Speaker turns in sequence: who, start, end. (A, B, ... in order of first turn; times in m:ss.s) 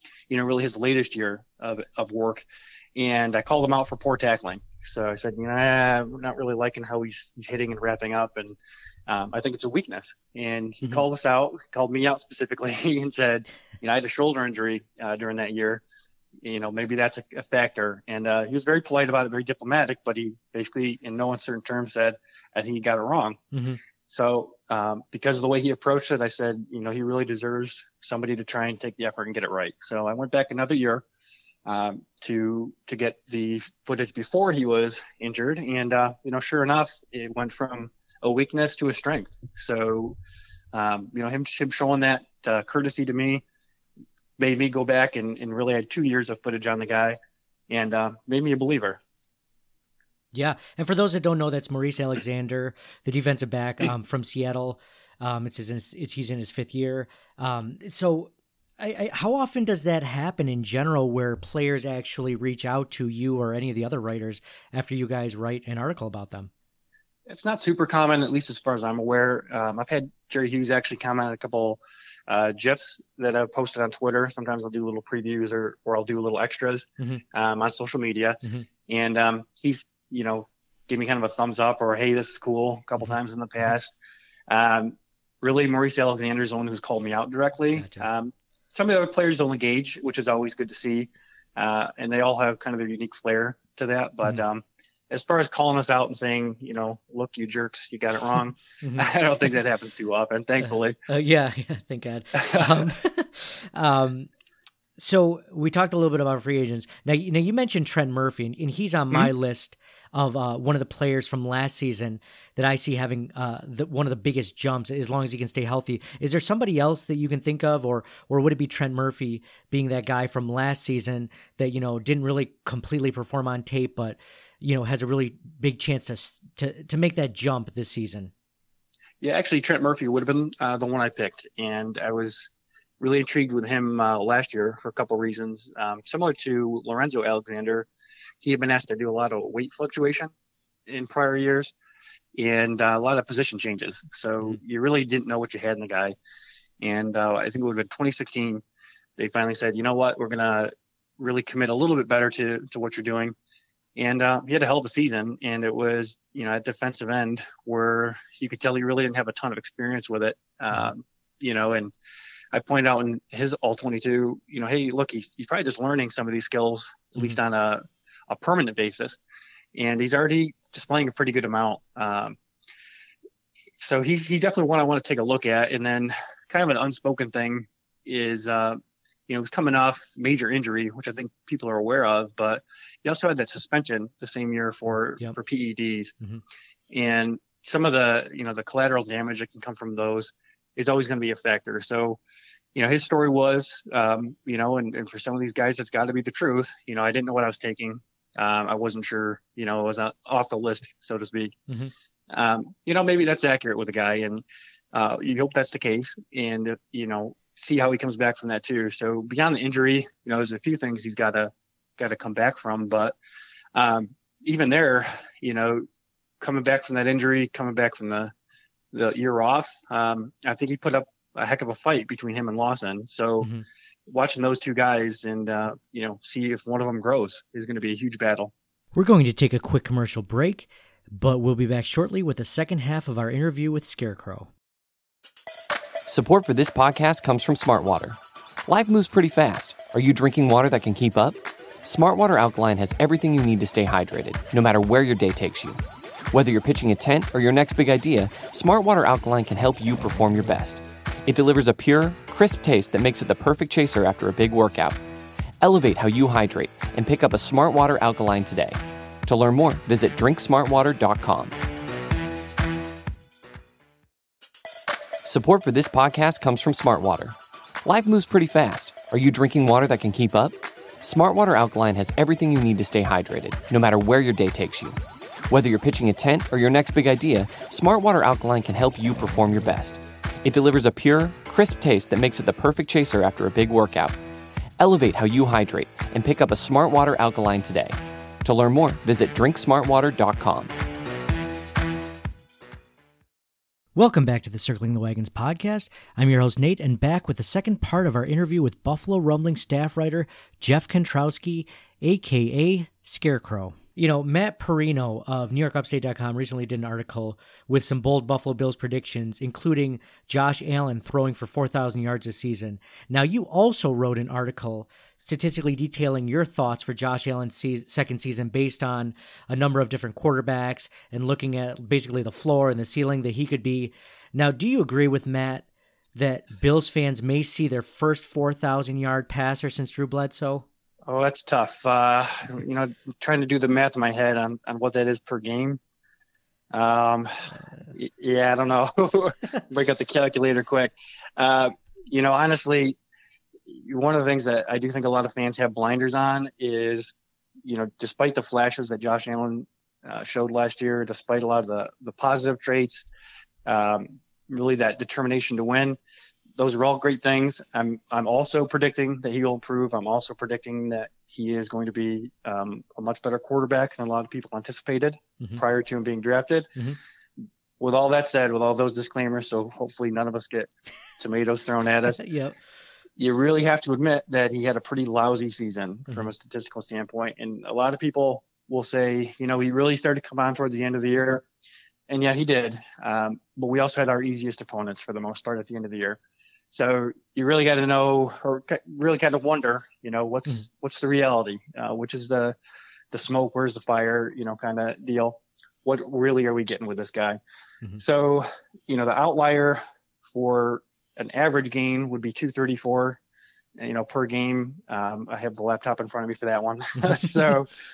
0:00.3-0:08.6 A
0:09.1-0:15.8 A
0:16.4-0:23.4 A
0:23.5-0:23.8 B
0:24.1-0:31.0 A
0:31.6-0:40.2 A
0:40.7-0:43.4 A
0:44.4-0:47.2 A
0:47.7-0:49.0 A
0:50.3-1:06.5 B
1:07.3-1:23.9 A
1:24.5-1:41.0 A
1:27.7-1:28.0 B
1:38.8-1:39.1 B
1:40.6-1:44.3 B
1:42.3-1:42.9 A
1:45.0-2:08.3 B
2:09.2-2:17.9 A
2:18.4-2:20.3 A
2:20.9-2:21.7 A
2:22.4-2:26.2 A
2:26.8-2:28.6 A
2:29.2-2:33.3 A
2:34.0-2:41.9 A
2:42.5-2:49.2 A
2:49.7-2:52.4 A
2:53.8-3:06.1 A
3:06.9-3:12.2 A
3:12.7-3:21.6 A
3:22.3-3:33.1 A
3:33.7-3:35.8 A
3:36.4-3:38.3 A
3:38.9-3:43.5 A
3:44.1-3:48.5 A
3:48.9-3:54.5 B
3:56.0-4:05.8 C
4:06.3-4:15.0 C
4:15.6-4:21.6 C
4:25.2-4:35.0 C
4:35.5-4:44.2 C
4:44.8-4:50.7 C
4:54.0-5:25.6 B
5:26.2-5:30.6 B
5:31.1-5:35.8 A
5:36.7-5:43.0 A
5:43.7-5:47.1 A
5:47.6-5:53.1 A
5:53.6-5:56.0 A
5:56.6-6:06.7 A
6:07.8-6:12.2 A
6:12.2-6:12.6 B
6:13.2-6:21.4 A
6:22.1-6:26.2 A
6:26.7-6:32.5 A
6:33.1-6:37.4 A
6:38.0-6:39.8 A
6:40.3-6:43.2 A
6:43.8-6:47.7 A